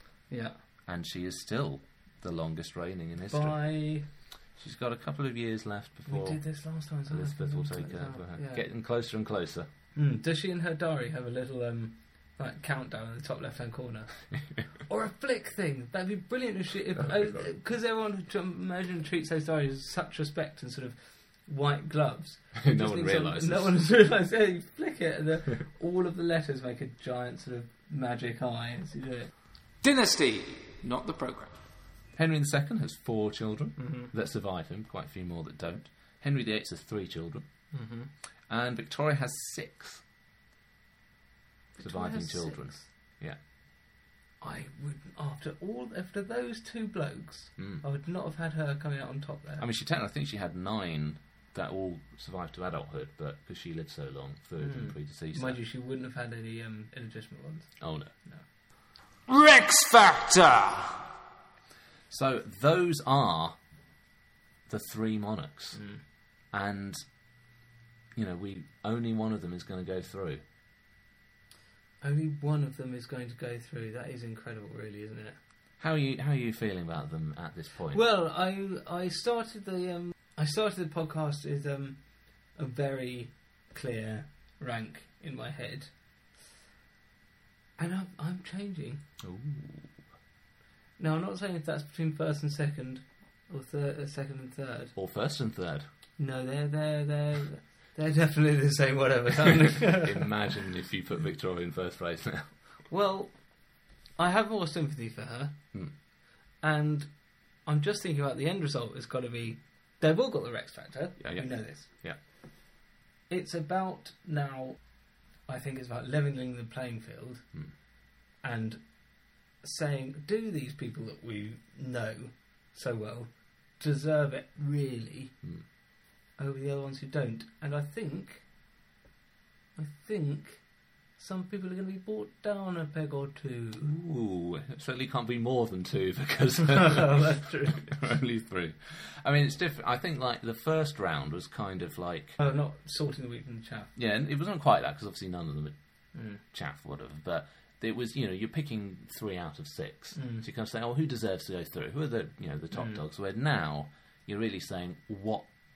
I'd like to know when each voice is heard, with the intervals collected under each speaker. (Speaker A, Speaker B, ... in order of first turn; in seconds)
Speaker A: 0.3-0.6, 3.3-4.1, 6.1-8.7, 9.9-29.3, 33.8-34.1, 37.7-38.1, 41.8-42.9, 44.4-49.6, 54.6-58.4, 65.7-66.0, 72.0-75.4, 77.9-85.9, 87.8-89.0, 91.0-94.9, 96.2-100.3, 102.9-105.6, 106.6-111.9, 113.3-117.6, 118.4-125.4, 126.4-128.5, 129.8-133.9, 136.7-137.9, 142.4-143.9, 146.1-146.4, 150.2-150.4, 152.7-153.0
Speaker B: 0.9-9.7, 17.0-17.5, 22.6-23.9, 32.1-37.5, 38.5-40.0, 41.8-43.4, 47.6-47.8, 49.6-55.6, 57.8-58.1, 62.1-63.6, 64.7-65.8, 66.5-67.0, 68.2-70.4, 75.8-78.0, 89.2-90.0, 95.0-95.8, 99.5-102.6, 111.2-112.2, 133.8-142.4, 143.9-145.8, 146.3-155.5
Speaker C: 29.8-31.7, 59.3-61.1